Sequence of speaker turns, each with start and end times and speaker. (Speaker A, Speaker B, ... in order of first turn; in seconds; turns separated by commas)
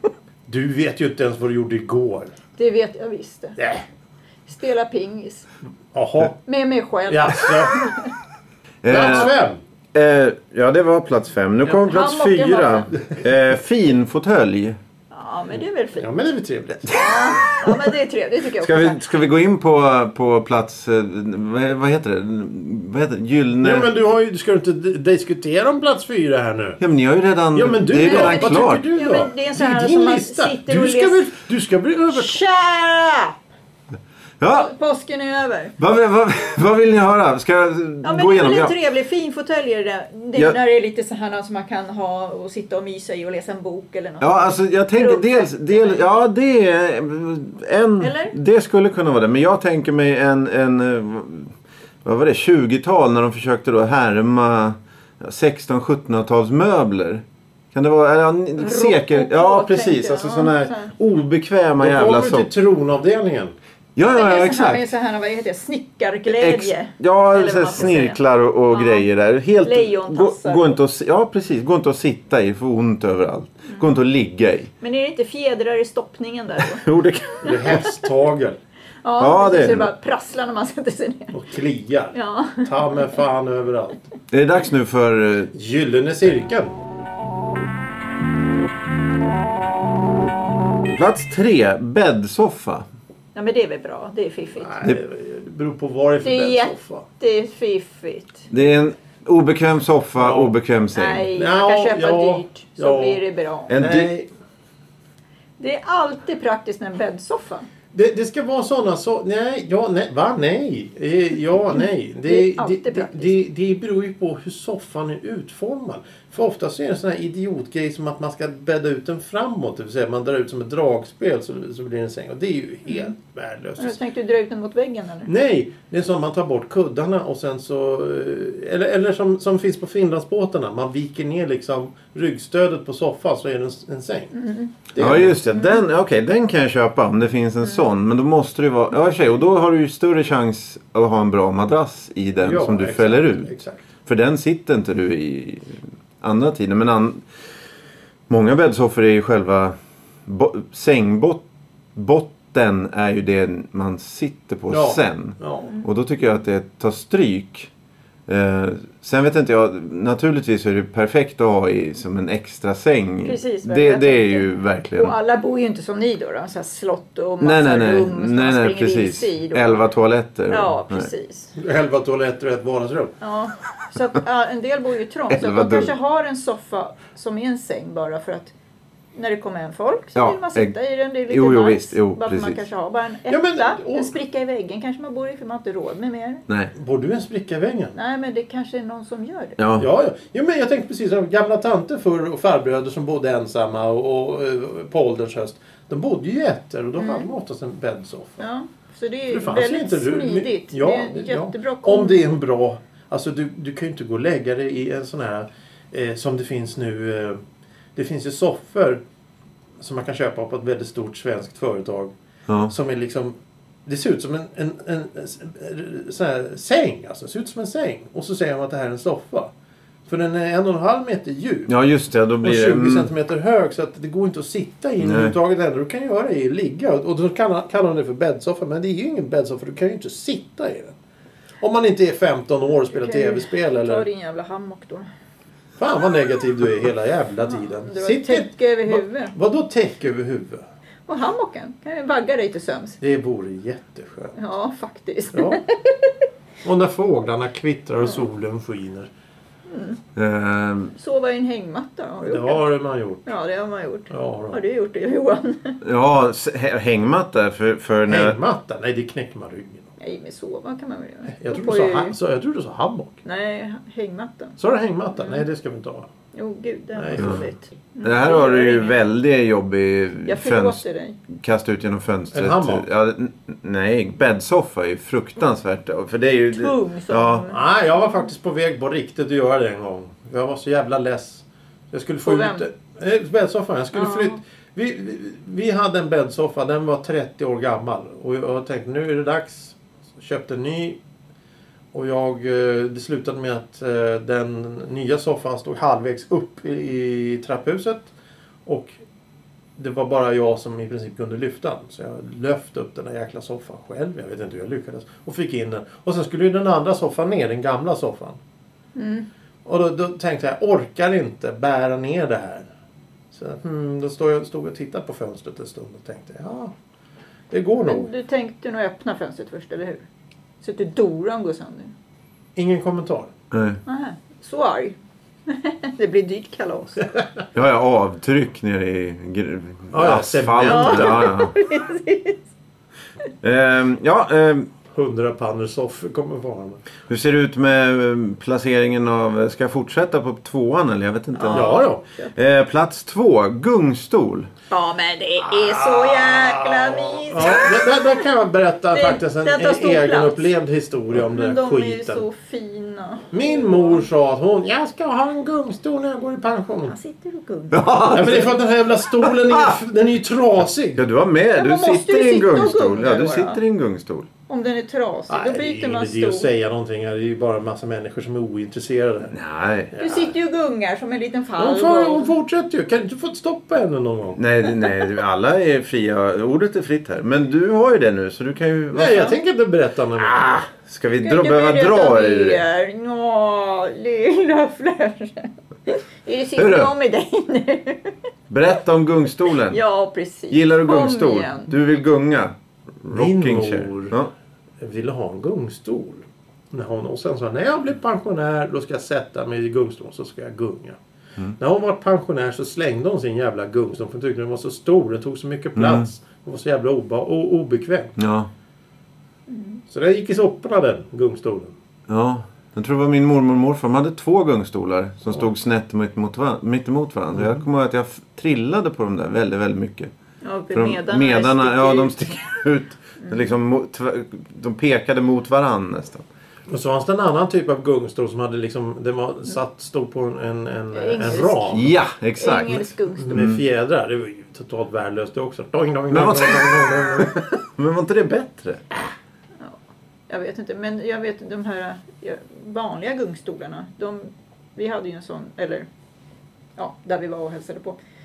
Speaker A: 0.5-2.3, Speaker B: 2.6-3.6, Speaker A: 3.6-3.8, Speaker B: 4.5-5.5, Speaker A: 5.9-6.4, Speaker B: 6.4-8.1, Speaker A: 7.1-7.8, Speaker C: 8.8-9.3, Speaker A: 8.9-9.6, Speaker C: 9.9-14.8, Speaker B: 11.7-12.9, Speaker B: 15.1-16.1, Speaker A: 15.9-17.0, Speaker B: 16.9-19.0, Speaker C: 18.6-23.9, Speaker A: 23.6-26.8, Speaker C: 26.8-28.8, Speaker A: 27.5-32.4, Speaker B: 27.9-31.3, Speaker B: 32.1-33.3, Speaker C: 34.4-34.7, Speaker B: 34.5-35.8, Speaker C: 35.8-38.7, Speaker B: 38.0-46.1, Speaker C: 44.2-62.5, Speaker B: 48.0-48.3, Speaker B: 58.6-60.9, Speaker A: 61.8-63.5, Speaker C: 64.0-64.9, Speaker B: 64.0-68.2, Speaker C: 66.3-74.7, Speaker B: 68.7-69.1, Speaker B: 69.6-70.8, Speaker B: 74.8-76.8, Speaker C: 76.6-77.8, Speaker A: 77.4-78.6, Speaker B: 77.4-77.9, Speaker B: 79.0-81.3, Speaker C: 79.2-79.9, Speaker A: 81.3-84.1, Speaker B: 82.1-83.2, Speaker C: 84.3-85.5, Speaker A: 85.5-86.7, Speaker C: 90.9-92.8, Speaker B: 93.3-94.8, Speaker A: 94.6-97.0, Speaker B: 96.2-98.5, Speaker C: 98.5-101.3, Speaker A: 100.2-100.5, Speaker B: 100.9-103.8, Speaker A: 101.3-104.3, Speaker C: 103.7-104.1, Speaker B: 105.6-107.7, Speaker A: 107.9-124.0, Speaker B: 112.2-113.4, Speaker B: 123.8-125.3, Speaker A: 125.3-134.3, Speaker B: 134.3-134.9, Speaker A: 134.9-135.4, Speaker C: 135.0-143.5, Speaker B: 135.4-135.8, Speaker A: 142.4-143.8, Speaker C: 144.1-147.2, Speaker C: 148.3-149.7, Speaker C: 150.2-151.4, Speaker C: 151.9-157.7, Speaker A: 154.7-155.7, Speaker C: 158.3-165.1, Speaker B: 163.2-169.8, Speaker C: 167.4-171.1, Speaker B: 170.5-171.5, Speaker A: 171.6-173.1, Speaker B: 173.2-178.5, Speaker C: 175.3-175.9, Speaker B: 179.1-186.4, Speaker C: 180.1-180.7, Speaker C: 181.3-182.6, Speaker A: 183.3-184.1, Speaker A: 186.8-187.9, Speaker B: 187.9-189.6, Speaker C: 189.6-189.9, Speaker A: 189.8-198.4, Speaker B: 197.0-197.3, Speaker B: 198.4-202.2, Speaker A: 199.3-207.4, Speaker A: 207.9-209.0, Speaker A: 209.8-212.1, Speaker C: 212.5-212.7, Speaker A: 212.7-219.5, Speaker A: 220.1-221.7, Speaker C: 221.7-223.1, Speaker A: 222.4-230.9, Speaker C: 225.0-225.3, Speaker A: 231.6-234.1, Speaker B: 232.9-235.1, Speaker A: 235.8-240.6, Speaker B: 237.5-239.3, Speaker B: 241.1-243.0, Speaker A: 243.0-244.3, Speaker B: 244.3-246.1, Speaker A: 245.3-245.6, Speaker A: 246.6-249.1, Speaker B: 249.7-250.0, Speaker C: 250.1-250.9, Speaker B: 250.9-252.7, Speaker A: 252.2-253.3, Speaker B: 253.2-255.8, Speaker A: 254.1-254.6, Speaker C: 255.8-258.4, Speaker A: 258.1-259.9, Speaker B: 260.0-262.1, Speaker A: 261.3-263.2, Speaker B: 263.2-264.6, Speaker A: 264.6-266.1, Speaker B: 265.2-265.4, Speaker B: 266.3-269.0, Speaker A: 266.9-267.5, Speaker C: 267.2-267.4, Speaker C: 268.0-277.4, Speaker B: 270.2-271.2, Speaker A: 272.3-272.8, Speaker B: 276.5-277.6, Speaker A: 277.5-291.0, Speaker B: 282.2-282.7, Speaker B: 283.9-284.4, Speaker A: 291.9-298.1, Speaker A: 298.6-299.0, Speaker A: 299.8-308.4, Speaker B: 308.9-309.3, Speaker A: 309.6-312.6, Speaker A: 313.3-316.7, Speaker A: 317.5-318.1, Speaker B: 317.8-320.0, Speaker B: 320.6-321.9, Speaker A: 322.6-323.3, Speaker C: 323.5-323.8, Speaker B: 323.9-327.1, Speaker C: 327.5-331.5, Speaker A: 329.9-331.3, Speaker B: 330.6-332.4, Speaker C: 333.4-334.7, Speaker A: 334.9-336.8, Speaker C: 337.1-341.8, Speaker B: 341.3-342.3, Speaker A: 341.5-342.0, Speaker C: 342.3-344.5, Speaker B: 344.7-348.2, Speaker A: 345.5-352.2, Speaker B: 348.9-350.5, Speaker B: 351.2-354.0, Speaker A: 353.3-356.9, Speaker B: 356.9-358.4, Speaker C: 357.7-358.6, Speaker A: 358.1-361.0, Speaker C: 359.2-359.7, Speaker C: 360.9-364.3, Speaker B: 361.5-363.6, Speaker B: 364.5-366.5, Speaker A: 365.3-369.3, Speaker C: 369.3-369.9, Speaker A: 369.9-370.3, Speaker B: 370.0-372.3, Speaker A: 371.6-374.4, Speaker C: 374.4-379.4, Speaker A: 378.9-380.6, Speaker C: 380.2-382.6, Speaker B: 381.2-388.1, Speaker C: 386.6-386.9, Speaker C: 388.5-389.8, Speaker B: 389.6-391.7, Speaker C: 390.5-394.3, Speaker A: 393.1-394.1, Speaker A: 394.8-401.0, Speaker A: 401.6-408.1, Speaker C: 405.8-406.1, Speaker C: 408.2-408.5, Speaker B: 409.5-409.8, Speaker A: 409.9-411.7, Speaker C: 412.1-420.1, Speaker B: 420.4-422.4, Speaker C: 420.7-426.2, Speaker A: 426.7-431.9, Speaker B: 430.9-433.4, Speaker C: 431.7-433.6, Speaker A: 433.2-437.4, Speaker C: 436.1-438.9, Speaker B: 440.3-445.9, Speaker B: 446.8-448.0